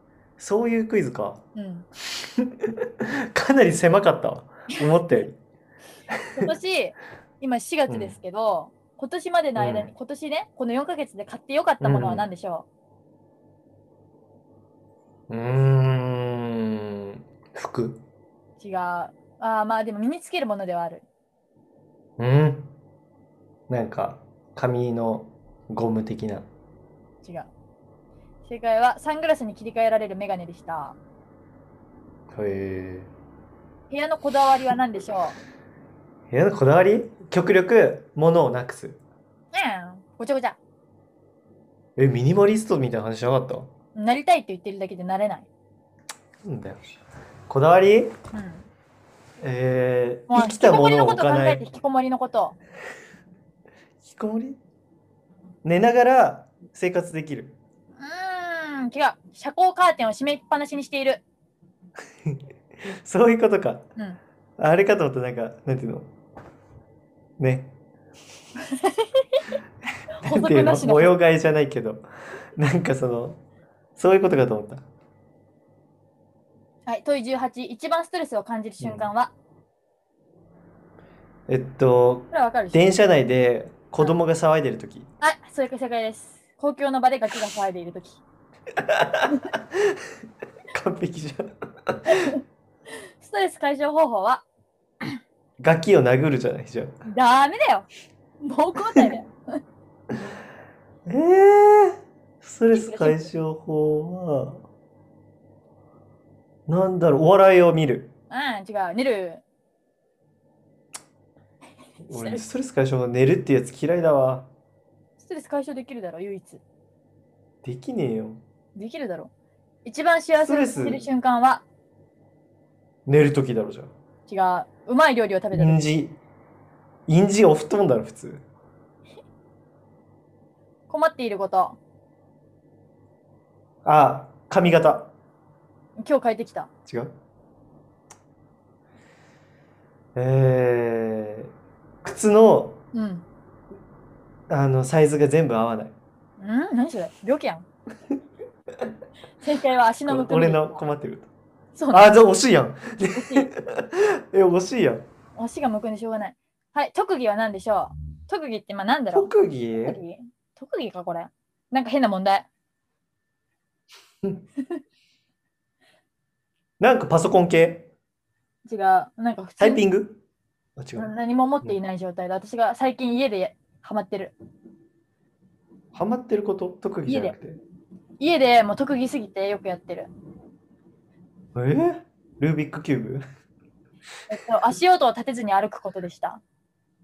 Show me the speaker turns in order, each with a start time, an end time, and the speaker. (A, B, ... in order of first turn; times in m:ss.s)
0:00.4-0:01.4 A
0:01.5-0:01.9 B
0:02.4-0:02.7 A
0:03.3-0:05.4 A
0:06.1-0:06.5 A
0:06.3-0:12.7 B
0:07.9-0:08.2 A
0:09.6-0:09.9 A
0:11.8-0:12.3 A
0:15.3-0:18.0 A
0:18.6-0:21.0 B
0:22.2-0:22.7 A
0:23.7-0:26.5 A
0:27.2-0:27.5 B
0:28.4-0:31.0 B
0:32.3-0:33.1 A
0:33.9-0:35.4 B
0:36.3-0:39.0 A
0:39.5-0:40.6 B
0:42.0-0:43.7 A
0:43.9-0:45.5 B
0:46.4-0:46.8 A
0:47.5-0:48.1 A
0:48.3-0:48.7 B
0:49.4-0:51.6 A
0:50.3-0:52.6 B
0:54.0-0:54.6 A
0:55.6-0:57.6 A
0:58.0-1:01.2 B
1:03.0-1:03.9 A
1:04.6-1:06.1 A
1:07.4-1:07.7 A
1:08.6-1:09.4 B
1:10.2-1:11.1 B
1:10.2-1:13.4 A
1:14.0-1:14.8 A
1:16.8-1:19.3 B
1:18.8-1:19.1 A
1:21.5-1:25.1 A
1:22.3-1:22.8 B
1:25.2-1:28.2 B
1:28.8-1:29.6 A
1:30.7-1:32.3 A
1:33.2-1:34.4 B
1:35.6-1:36.9 A
1:37.1-1:37.9 B
1:38.4-1:39.3 B
1:41.0-1:44.6 A
1:42.7-1:43.3 B
1:46.7-1:48.1 A
1:48.3-1:49.4 B
1:52.0-1:54.5 A
1:52.1-1:52.4 B
1:55.2-1:56.6 B
1:57.6-1:58.4 A
1:58.7-1:59.3 B
1:59.8-2:01.6 B
2:00.4-2:01.0 A
2:03.1-2:03.9 A
2:04.3-2:05.8 B
2:05.5-2:06.2 A
2:07.1-2:08.4 A
2:10.9-2:11.8 B
2:13.8-2:15.1 A
2:16.0-2:16.7 B
2:16.9-2:17.1 A
2:20.1-2:21.5 A
2:22.0-2:22.8 A
2:22.9-2:23.2 B
2:24.5-2:25.9 A
2:26.4-2:27.6 B
2:29.4-2:30.8 B
2:30.1-2:31.3 A
2:31.8-2:32.1 B
2:31.9-2:35.0 A
2:33.1-2:33.5 B
2:35.4-2:39.3 B
2:39.1-2:40.0 A
2:39.8-2:42.5 B
2:46.8-2:47.9 A
2:48.6-2:49.8 B
2:49.6-2:50.2 A
2:50.8-2:51.1 A
2:51.0-2:54.3 B
2:55.9-2:57.6 A
2:57.1-2:57.3 B
2:58.2-3:00.1 B
3:01.5-3:03.2 A
3:04.3-3:06.4 B